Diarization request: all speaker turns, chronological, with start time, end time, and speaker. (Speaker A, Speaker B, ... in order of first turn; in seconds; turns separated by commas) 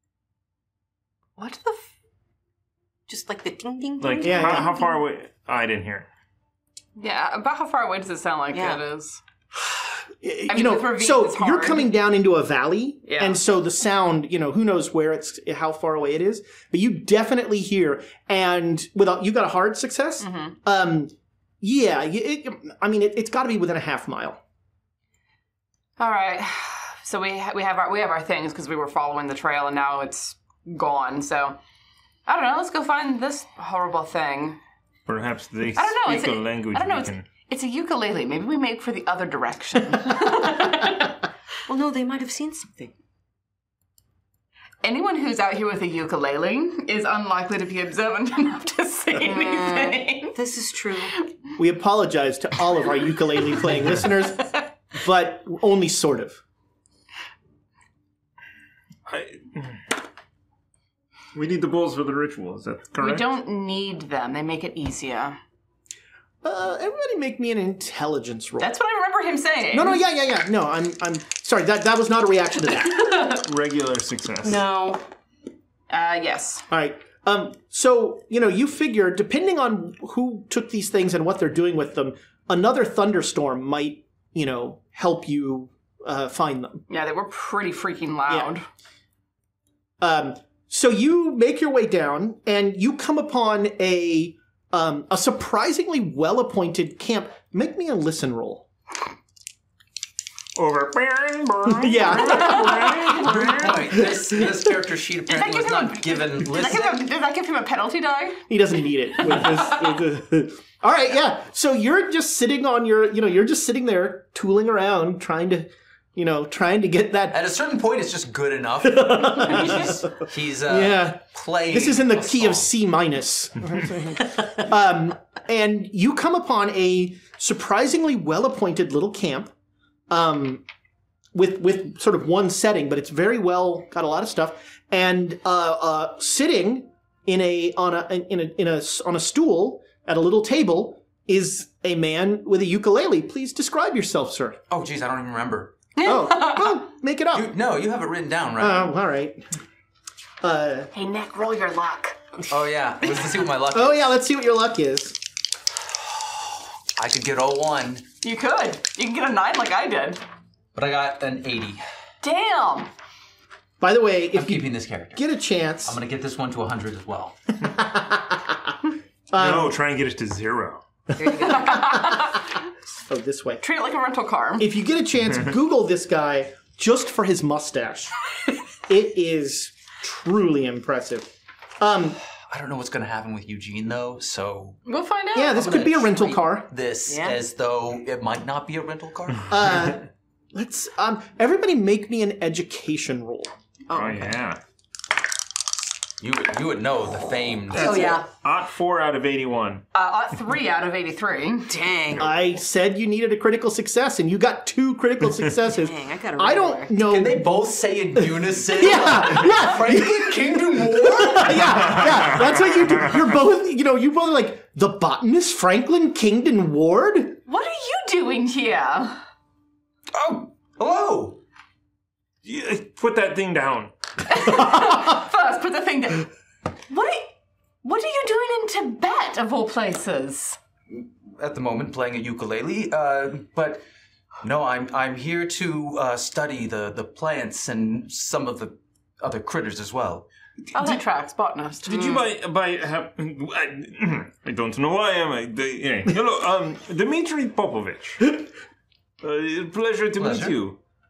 Speaker A: 1.4-1.9, Speaker B: 3.1-4.9, Speaker C: 4.0-6.1, Speaker D: 4.2-4.8, Speaker A: 7.0-9.2, Speaker B: 8.5-8.8, Speaker D: 10.1-24.4, Speaker A: 10.5-11.9, Speaker A: 13.1-13.4, Speaker A: 20.2-20.6, Speaker A: 26.0-31.6, Speaker A: 32.3-34.6, Speaker C: 35.1-37.3, Speaker A: 35.8-41.2, Speaker B: 41.7-42.9, Speaker A: 44.8-50.4, Speaker B: 49.2-51.1, Speaker D: 51.6-56.4, Speaker C: 59.1-59.8, Speaker C: 61.3-63.3, Speaker A: 63.0-65.4, Speaker D: 66.4-68.7, Speaker A: 68.6-70.0, Speaker D: 69.7-73.1, Speaker A: 72.9-73.4, Speaker C: 73.3-74.6, Speaker B: 74.4-75.0, Speaker A: 75.9-76.7, Speaker D: 76.7-86.8, Speaker A: 86.9-88.7, Speaker D: 90.0-98.7, Speaker C: 100.6-103.9, Speaker D: 101.7-104.5, Speaker E: 103.0-107.1, Speaker A: 105.3-108.4, Speaker D: 108.5-117.4, Speaker A: 109.2-109.9, Speaker E: 117.3-122.7, Speaker D: 118.8-129.5, Speaker D: 130.1-130.6, Speaker D: 131.3-144.6, Speaker E: 144.7-145.8, Speaker A: 145.9-146.9, Speaker D: 146.0-147.5, Speaker E: 147.3-148.9, Speaker D: 148.6-149.4, Speaker D: 150.4-150.9, Speaker A: 150.9-152.2, Speaker E: 152.5-154.0, Speaker D: 153.7-155.2, Speaker E: 156.9-158.1, Speaker A: 158.2-160.2, Speaker E: 160.8-161.8, Speaker A: 162.2-162.9, Speaker D: 163.8-166.0, Speaker E: 164.3-165.2, Speaker E: 165.8-167.4, Speaker D: 167.7-168.7, Speaker D: 169.3-169.8, Speaker C: 169.3-170.8, Speaker B: 171.1-172.1, Speaker A: 171.3-172.5, Speaker D: 173.1-173.6, Speaker A: 173.6-174.7, Speaker D: 174.6-178.1, Speaker D: 178.9-182.2, Speaker E: 182.5-184.8, Speaker A: 184.9-185.8, Speaker D: 185.3-186.7, Speaker E: 185.6-189.5, Speaker B: 187.1-187.4, Speaker D: 189.5-193.5, Speaker B: 193.9-194.4, Speaker C: 193.9-194.6, Speaker E: 196.2-198.2, Speaker B: 197.7-198.3, Speaker C: 197.7-199.8, Speaker A: 199.9-201.7, Speaker B: 201.7-202.4, Speaker D: 202.1-207.4, Speaker B: 205.7-207.0, Speaker E: 207.0-212.3, Speaker D: 208.7-217.4, Speaker A: 217.5-219.2, Speaker E: 220.1-221.4, Speaker C: 222.4-223.9, Speaker A: 224.3-226.3, Speaker A: 226.9-230.6, Speaker E: 230.9-233.8, Speaker E: 234.4-240.3, Speaker A: 240.7-242.2, Speaker C: 241.8-248.4, Speaker C: 249.2-250.8, Speaker E: 250.2-250.6